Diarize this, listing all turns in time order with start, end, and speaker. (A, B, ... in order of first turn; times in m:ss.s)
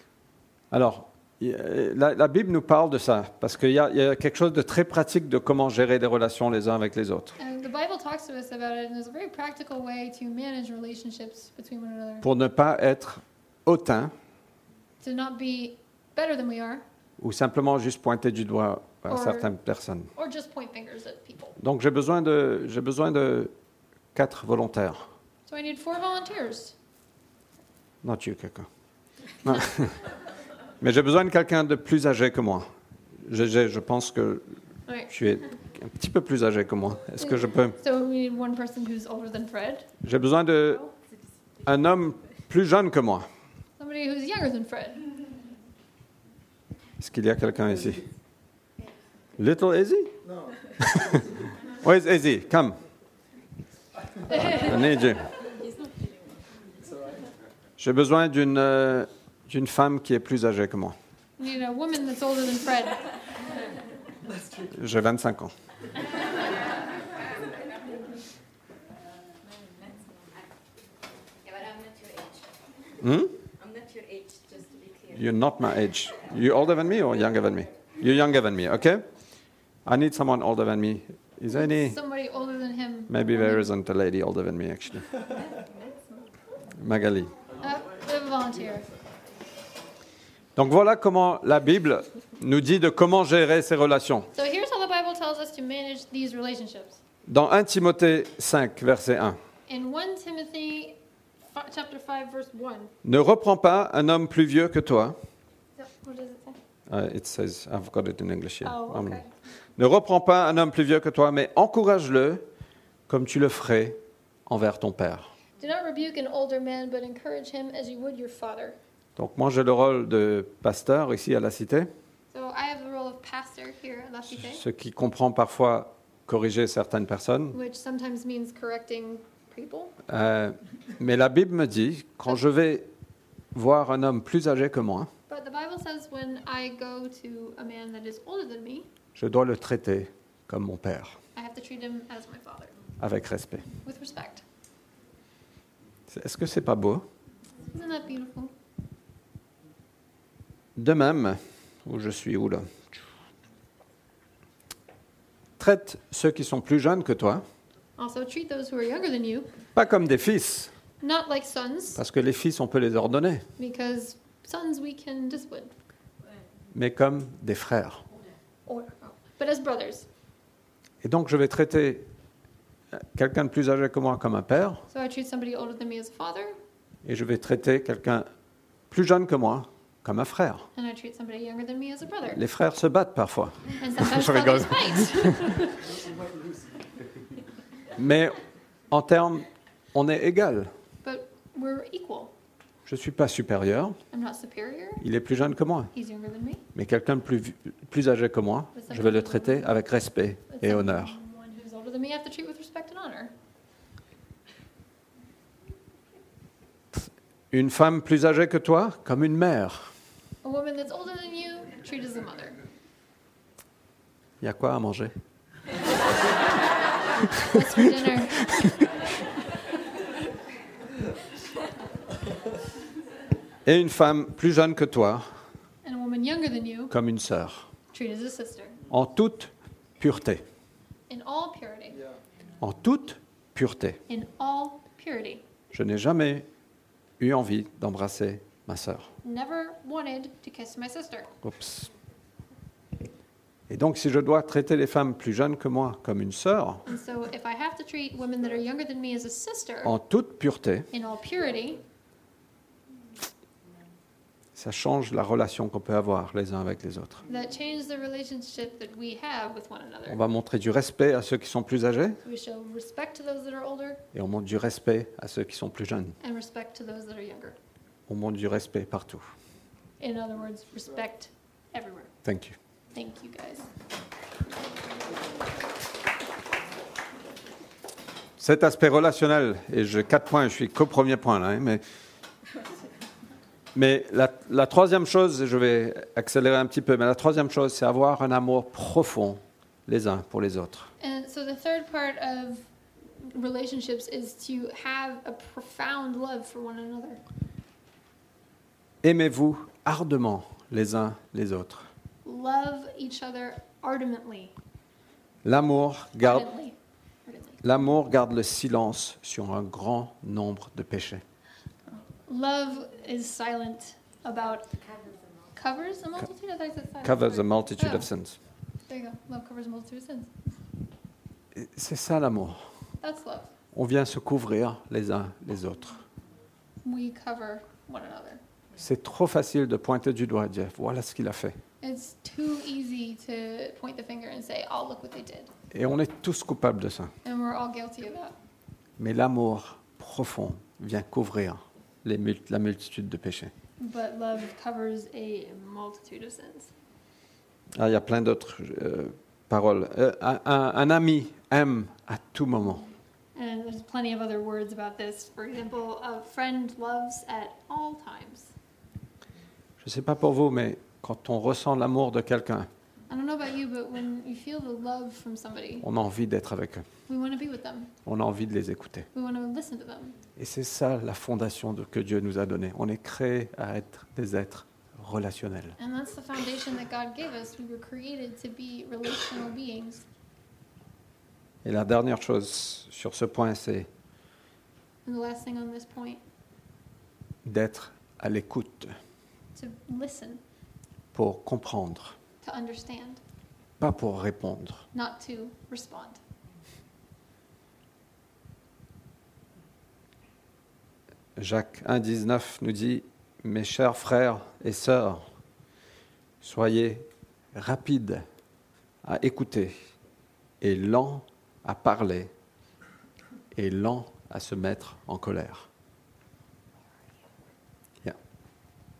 0:00.7-0:07.4 A
0:07.4-0:12.2 B
0:12.2-0:14.1 A
0:15.0-0:16.8 B
0:17.2-0:20.1 A
0:19.1-0:19.5 B
0:20.1-0:21.6 B
0:21.6-0:23.5 A
0:24.1-0:25.1 A
0:25.4-0:26.7 B
0:28.0-0:28.7 A
0:29.4-0:30.0 A
0:30.8-0:32.7 A
0:33.2-0:34.5 A
0:35.1-0:37.8 A
0:37.2-0:39.9 B
0:40.0-0:40.8 A
0:41.6-0:43.2 A
0:43.8-0:45.1 B
0:47.0-0:48.0 A
0:49.4-0:50.2 A
0:50.8-0:52.8 A
0:54.3-0:55.1 B
0:54.3-0:55.3 A
0:55.4-0:56.1 C
0:57.8-1:00.9 A
1:01.4-1:03.0 B
1:04.6-1:05.5 A
1:09.6-1:10.4 C
1:11.4-1:12.5 C
1:13.0-1:13.3 A
1:13.6-1:15.3 C
1:15.1-1:19.0 A
1:19.8-1:22.0 A
1:21.5-1:23.7 B
1:23.1-1:25.1 A
1:25.3-1:26.0 C
1:26.8-1:27.3 A
1:27.6-1:28.9 B
1:30.6-1:34.3 A
1:34.3-1:37.0 B
1:37.3-1:39.4 A
1:39.7-1:42.9 B
1:43.0-1:45.2 A
1:45.8-1:46.6 B
1:46.9-1:49.2 A
1:48.6-1:49.3 B
1:49.8-1:52.4 A
1:53.1-1:55.3 A
1:55.6-1:58.8 B
1:59.2-2:01.9 A
2:02.3-2:04.6 B
2:04.3-2:07.6 A
2:07.5-2:09.9 B
2:10.1-2:12.9 A
2:13.5-2:15.1 A
2:15.3-2:18.9 B
2:19.1-2:21.2 A
2:21.3-2:22.7 B
2:23.0-2:23.7 A
2:23.8-2:24.4 B
2:26.1-2:27.0 A
2:27.7-2:28.5 B
2:30.8-2:32.7 A
2:35.6-2:37.4 A
2:38.0-2:39.5 B
2:39.7-2:40.7 A
2:41.0-2:42.0 B
2:41.9-2:43.4 A
2:43.6-2:45.7 B
2:46.7-2:48.0 A
2:48.7-2:50.1 B
2:51.0-2:52.1 A
2:53.1-2:54.8 A
2:54.9-2:56.6 B
2:57.0-2:58.3 A
2:58.9-3:00.7 A
3:00.7-3:02.4 B
3:02.3-3:05.6 A
3:03.8-3:05.9 B
3:08.0-3:08.4 A
3:08.9-3:10.7 A
3:11.0-3:12.3 B
3:12.8-3:14.0 A
3:14.1-3:15.0 B
3:15.0-3:15.9 A
3:15.9-3:16.6 B
3:16.7-3:21.2 A
3:18.7-3:19.7 B
3:20.5-3:23.3 B
3:26.9-3:29.9 A
3:30.4-3:32.6 B
3:34.4-3:35.1 A
3:37.3-3:37.8 A
3:37.3-3:38.8 B
3:38.3-3:38.8 A
3:43.6-3:45.3 A
3:45.8-3:46.9 B
3:46.9-3:47.7 A
3:47.9-3:48.8 B
3:48.9-3:50.4 A
3:51.1-3:52.0 B
3:52.6-3:54.0 A
3:54.1-3:55.4 B
3:55.7-3:56.5 A
3:57.2-3:59.1 A
3:59.2-4:01.3 B
4:01.4-4:01.9 A
4:03.7-4:06.8 A
4:06.8-4:09.9 B
4:09.8-4:10.9 A
4:10.9-4:11.8 B
4:14.6-4:17.2 A
4:17.3-4:20.2 B
4:20.1-4:22.2 A
4:22.2-4:24.0 B
4:24.1-4:26.2 A
4:26.2-4:27.6 B
4:28.1-4:29.2 A
4:30.0-4:32.1 B
4:32.2-4:32.6 A
4:32.9-4:33.7 B
4:38.4-4:41.8 A
4:43.7-4:50.9 A
4:51.0-4:57.2 B
4:59.0-5:01.9 A
5:02.2-5:04.5 B
5:05.4-5:06.5 A
5:06.2-5:07.6 B
5:07.6-5:11.2 A
5:11.9-5:14.8 B
5:14.8-5:15.5 C
5:15.6-5:18.1 B
5:17.0-5:18.4 A
5:18.9-5:20.3 B
5:21.5-5:22.6 A
5:23.0-5:23.5 B
5:23.7-5:26.0 A
5:26.8-5:28.4 B
5:28.8-5:31.6 A
5:31.8-5:35.5 B
5:35.7-5:37.1 A
5:37.2-5:38.3 B
5:39.0-5:43.5 A
5:43.8-5:46.7 B
5:47.7-5:52.9 A
5:53.3-5:58.5 B
5:59.8-6:02.7 A
6:03.1-6:05.8 B
6:05.8-6:06.9 A
6:07.1-6:07.9 B
6:08.0-6:09.1 A
6:09.1-6:10.2 B
6:10.4-6:15.8 A
6:15.8-6:20.0 B
6:21.6-6:23.9 A
6:25.0-6:26.2 B
6:27.4-6:28.9 A
6:29.5-6:30.4 B
6:31.1-6:32.2 A
6:32.4-6:33.2 B
6:33.8-6:34.8 A
6:34.9-6:36.2 B
6:41.4-6:45.2 A
6:46.4-6:48.2 A
6:49.0-6:49.7 A
6:50.6-6:52.3 A
6:53.5-6:55.7 A